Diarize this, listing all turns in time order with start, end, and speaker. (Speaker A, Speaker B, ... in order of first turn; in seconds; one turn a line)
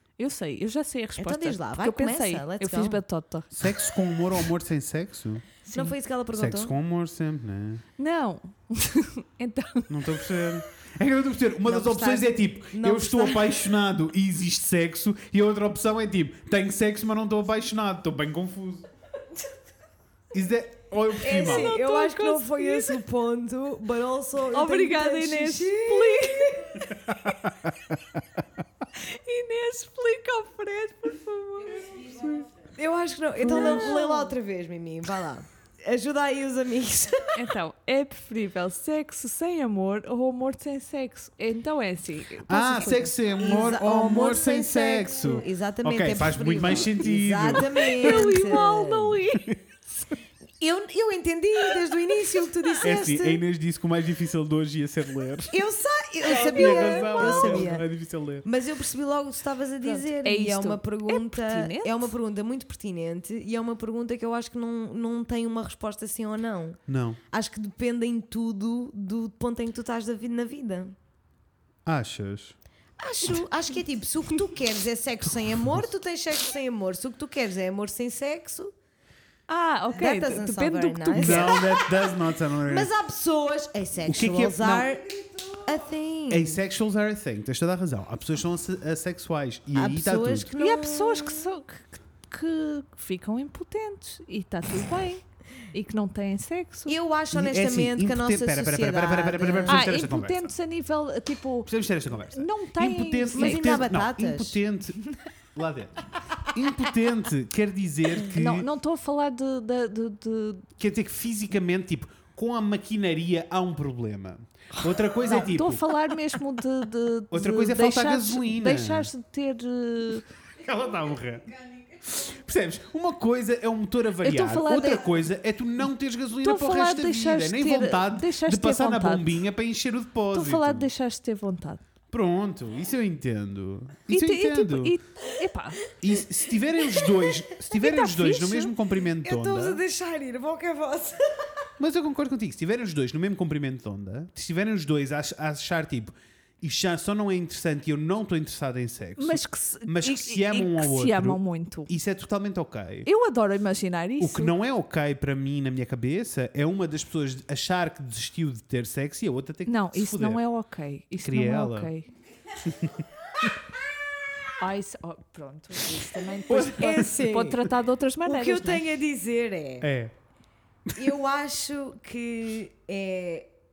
Speaker A: 0.2-3.6
Speaker B: 1.2-3.0
Speaker C: 3.5-5.5
Speaker B: 5.7-6.7
Speaker A: 5.7-6.0
Speaker C: 6.4-7.8
Speaker A: 8.0-10.6
Speaker C: 9.9-18.9
Speaker B: 11.7-13.8
Speaker C: 20.3-21.7
Speaker B: 21.2-26.8
Speaker A: 21.2-23.0
Speaker A: 24.5-27.4
Speaker C: 26.9-28.0
Speaker A: 28.9-32.3
Speaker B: 32.8-37.5
Speaker A: 33.4-34.4
Speaker A: 37.3-43.1
Speaker C: 42.5-48.0
Speaker B: 42.8-49.2
Speaker A: 47.6-49.5
Speaker B: 50.6-53.4
Speaker C: 52.8-55.6
Speaker B: 55.5-57.9
Speaker C: 56.2-58.5
Speaker B: 58.4-66.8
Speaker A: 59.8-62.1
Speaker C: 66.9-67.2
Speaker B: 67.3-71.0
Speaker C: 71.9-72.5
Speaker B: 73.0-78.7
Speaker A: 79.5-81.6
Speaker B: 79.9-86.6
Speaker C: 81.2-82.9
Speaker C: 84.0-84.9
Speaker C: 86.3-90.5
Speaker B: 89.7-91.5
Speaker A: 90.6-97.0
Speaker B: 96.9-99.8
Speaker C: 97.3-100.5
Speaker A: 99.7-103.9
Speaker C: 101.7-108.7
Speaker B: 103.3-104.6
Speaker A: 108.2-110.7
Speaker C: 110.8-115.9
Speaker A: 115.2-120.2
Speaker C: 117.3-119.1
Speaker C: 120.6-130.9
Speaker A: 124.2-125.2
Speaker A: 126.4-129.4
Speaker A: 130.3-131.8
Speaker C: 132.1-135.0
Speaker A: 134.1-135.8
Speaker C: 136.0-139.8
Speaker A: 137.7-138.7
Speaker B: 139.2-141.4
Speaker C: 141.8-153.1
Speaker A: 149.2-151.9
Speaker A: 153.1-154.5
Speaker C: 154.2-160.4
Speaker A: 159.7-162.1
Speaker C: 161.2-161.9
Speaker C: 162.6-163.0
Speaker A: 164.6-168.8
Speaker C: 166.5-167.1
Speaker B: 166.5-167.7
Speaker B: 168.2-169.9
Speaker C: 169.8-170.1
Speaker B: 171.0-173.5